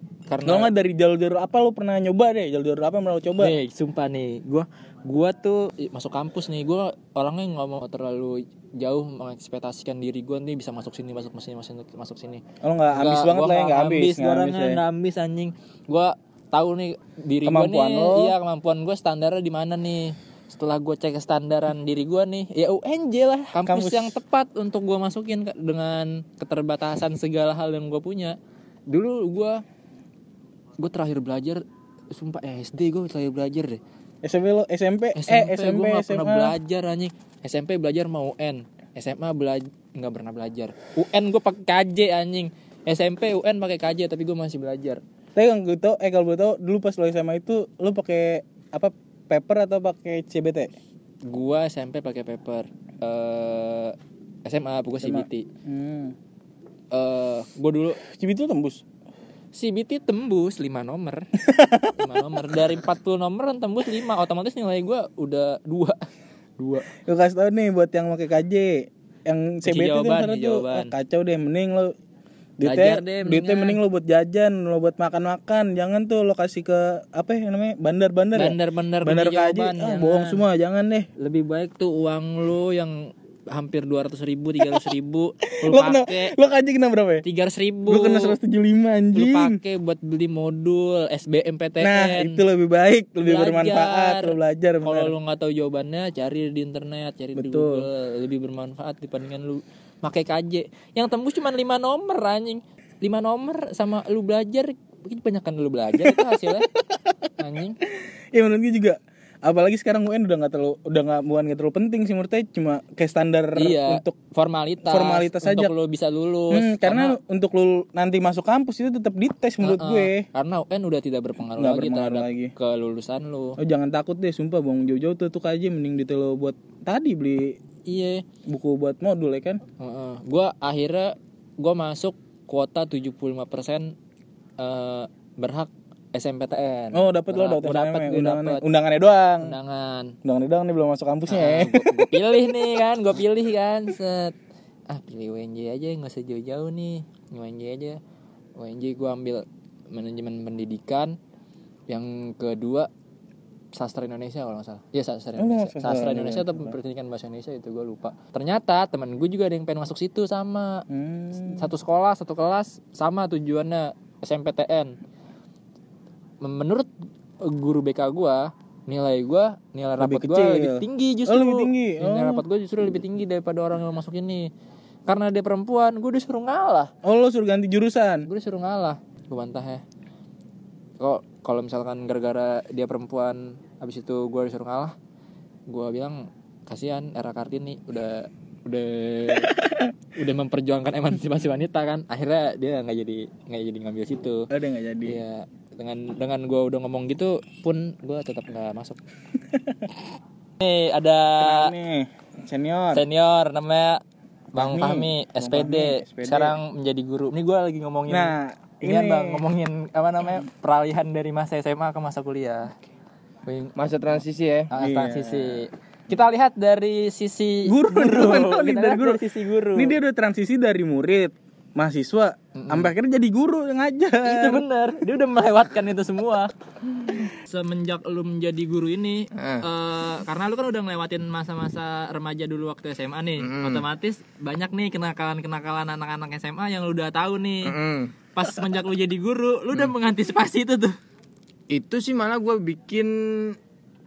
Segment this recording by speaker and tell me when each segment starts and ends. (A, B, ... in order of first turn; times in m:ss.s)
0:00.3-0:00.7 A
0:00.4-0:03.5 B
0:03.4-0:28.4 A
0:12.6-0:14.8 B
0:17.4-0:18.4 B
0:23.6-0:24.2 B
0:28.9-0:29.6 A
0:30.8-0:31.6 A
0:32.1-0:33.8 A
0:34.2-0:36.5 B
0:35.2-0:45.0 A
0:45.3-0:50.7 B
0:51.2-0:55.5 A
0:55.0-0:56.1 B
0:56.9-0:58.0 A
0:58.0-0:58.8 B
0:59.5-1:01.3 A
1:01.4-1:02.7 B
1:01.9-1:06.1 A
1:06.6-1:06.9 A
1:07.0-1:11.9 B
1:09.6-1:10.9 A
1:12.6-1:21.1 B
1:12.6-1:13.8 A
1:18.4-1:20.4 A
1:21.2-1:26.3 A
1:24.6-1:24.9 B
1:25.6-1:27.2 B
1:27.2-1:28.4 A
1:27.8-1:29.6 B
1:29.1-1:32.4 A
1:31.8-1:35.1 B
1:33.2-1:46.7 A
1:37.3-1:37.9 B
1:46.0-1:46.4 B
1:47.4-1:47.8 A
1:47.9-1:54.1 B
1:53.6-1:57.2 A
1:54.8-1:55.7 B
1:56.5-2:00.2 B
1:59.6-2:03.6 A
2:01.5-2:02.5 B
2:03.6-2:07.5 B
2:07.9-2:08.2 A
2:08.5-2:09.6 B
2:09.8-2:13.9 A
2:14.6-2:18.6 A
2:16.9-2:19.5 B
2:19.4-2:20.2 A
2:20.2-2:22.2 B
2:21.3-2:24.3 A
2:24.9-2:28.0 A
2:28.6-2:31.2 A
2:31.9-2:32.9 A
2:33.7-2:40.8 A
2:35.4-2:36.8 B
2:40.9-2:41.7 B
2:41.4-2:45.0 A
2:46.4-2:46.9 A
2:47.4-2:54.5 A
2:50.0-2:52.4 B
2:55.1-2:56.9 A
2:57.0-2:58.3 B
2:58.3-2:59.8 A
3:01.0-3:04.9 A
3:05.7-3:09.6 A
3:09.4-3:09.9 B
3:10.1-3:14.5 A
3:14.5-3:15.2 B
3:15.0-3:19.0 A
3:19.5-3:19.9 B
3:20.6-3:21.7 A
3:21.4-3:23.0 B
3:22.9-3:24.0 A
3:24.5-3:32.7 A
3:24.5-3:26.6 B
3:28.1-3:29.4 B
3:33.4-3:33.8 A
3:33.8-3:34.7 C
3:34.7-3:39.9 A
3:34.8-3:35.6 B
3:37.6-3:39.2 B
3:39.7-3:44.6 B
3:42.6-3:42.9 A
3:44.2-3:57.7 A
3:49.4-3:49.6 C
3:53.4-3:53.8 C
3:57.6-3:58.1 C
3:58.3-4:01.0 A
4:01.7-4:03.6 C